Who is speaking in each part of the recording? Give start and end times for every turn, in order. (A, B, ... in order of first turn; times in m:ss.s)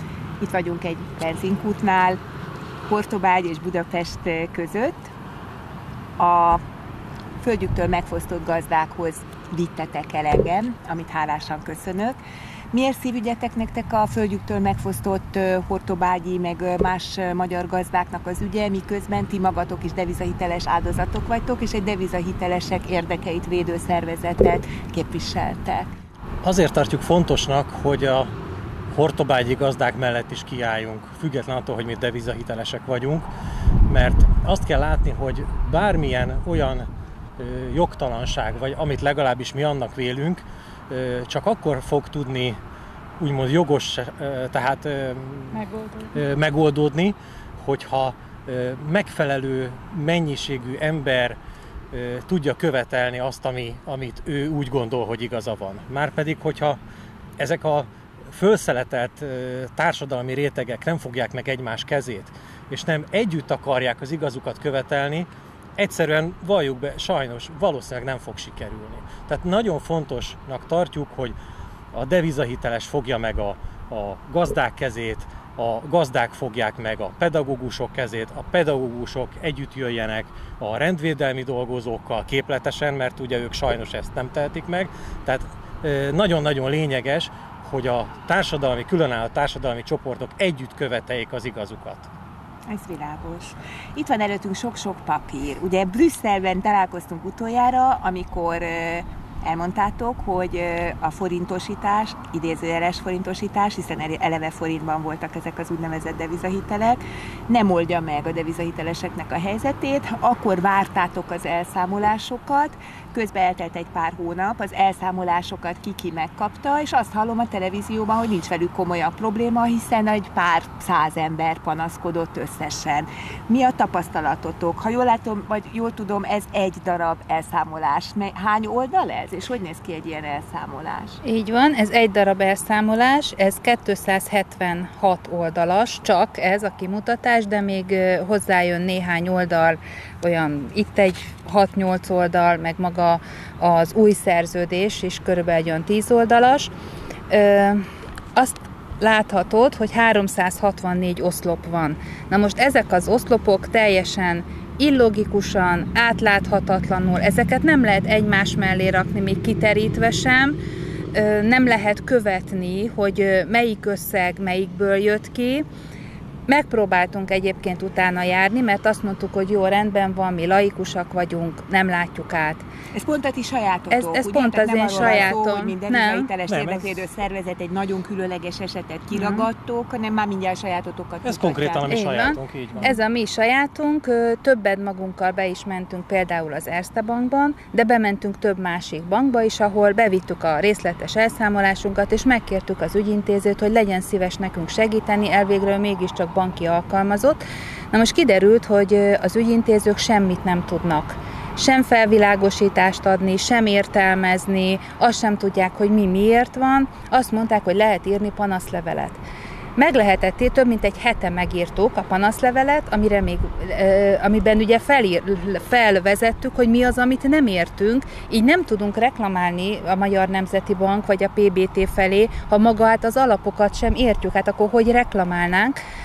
0:00.4-0:02.2 A
0:02.9-0:05.1 A
0:06.2-0:06.6 A
0:07.4-0:12.2 A
0:12.7-0:25.9 A
0:26.4-0:28.3 B
0:28.9-0:33.3 B
0:33.9-0:36.9 B
0:37.4-0:42.6 B
0:43.2-0:51.4 B
0:45.7-0:46.1 C
0:51.9-0:56.8 B
0:57.4-1:11.4 B
1:11.9-1:32.1 B
1:32.7-2:11.2 A
2:11.2-2:26.7 C
2:27.3-2:27.8 C
2:28.4-2:40.6 C
2:41.1-2:45.6 C
2:46.5-2:52.6 C
2:52.9-3:02.0 A
2:53.9-2:56.3 C
2:56.5-2:57.0 B
2:59.1-2:59.5 C
3:01.2-3:02.9 B
3:01.9-3:17.4 C
3:17.9-3:29.2 C
3:29.8-3:45.8 C